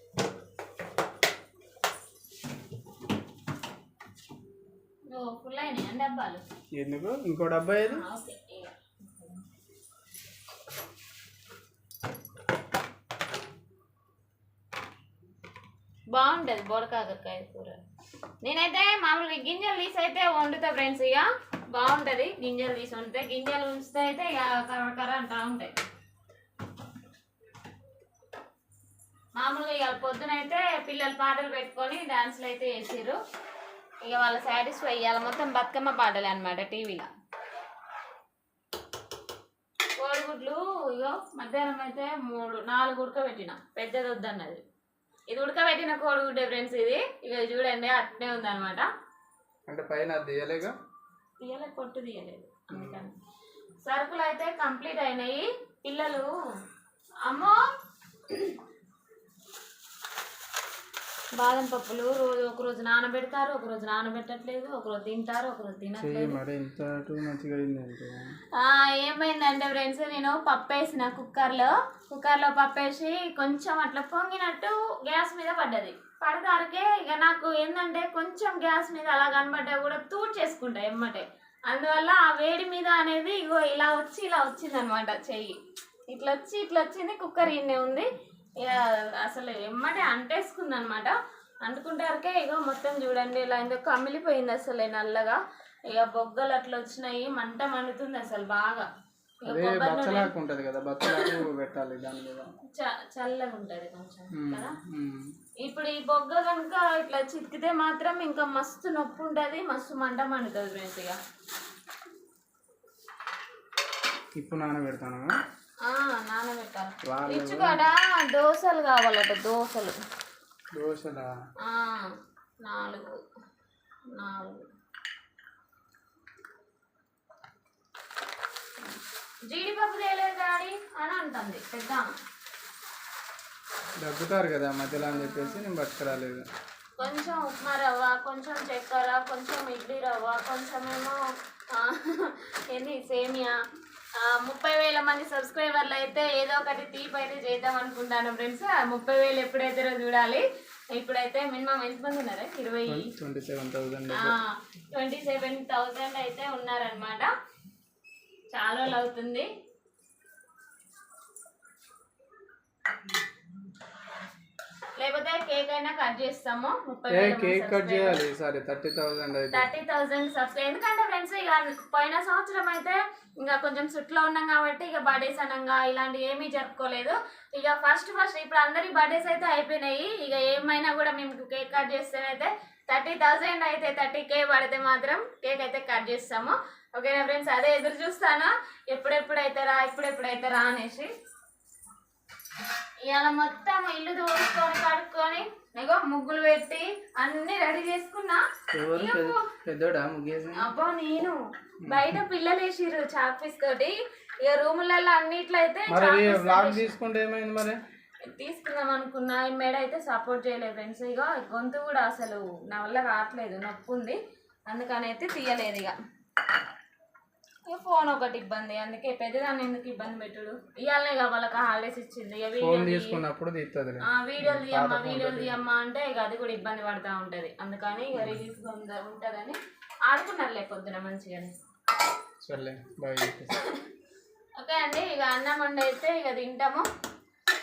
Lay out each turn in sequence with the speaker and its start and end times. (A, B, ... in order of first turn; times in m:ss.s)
0:05.1-0:06.4 A
0:06.7-0:08.0 B
0:07.8-0:09.4 A
0:16.1-0:17.8 A
0:18.4-0:25.7 A
0:29.3-0:33.2 A
0:34.0-0:37.1 A
0:40.0-0:44.6 A
0:45.3-0:48.9 A
0:49.7-0:50.7 B
0:51.4-0:53.1 A
0:52.7-0:53.0 B
0:53.8-0:56.3 A
0:57.2-0:57.7 A
0:58.3-0:58.6 A
1:01.4-1:06.4 A
1:06.0-1:08.4 B
1:08.5-1:25.6 A
1:26.1-1:28.0 A
1:28.6-1:31.1 A
1:31.6-1:35.4 A
1:35.9-1:38.8 A
1:39.4-1:40.3 A
1:39.5-1:42.5 B
1:41.0-1:41.4 A
1:42.7-1:44.8 A
1:44.3-1:45.3 B
1:45.6-1:51.2 A
1:54.4-1:55.3 B
1:55.8-2:00.0 A
1:57.0-1:57.8 B
2:00.7-2:01.3 B
2:01.6-2:03.1 A
2:04.1-2:04.7 A
2:09.5-2:12.0 A
2:14.0-2:16.4 B
2:15.0-2:15.6 A
2:17.0-2:21.2 A
2:21.7-2:23.5 A
2:24.2-2:33.1 A
2:32.9-2:34.4 B
2:34.1-2:37.3 A
2:38.5-2:39.5 A
2:45.0-2:48.2 A
2:47.1-2:49.6 B
2:49.5-3:11.1 A
3:13.0-3:18.4 A
3:18.7-3:20.7 B
3:18.9-3:19.4 A
3:20.6-3:26.9 A
3:21.8-3:22.2 B
3:25.9-3:27.8 B
3:28.3-3:34.2 A
3:34.7-3:36.0 A
3:37.7-3:43.2 A
3:42.6-3:45.6 B
3:44.1-3:51.5 A
3:48.1-3:48.4 B
3:52.4-3:53.6 B
3:54.6-3:56.8 A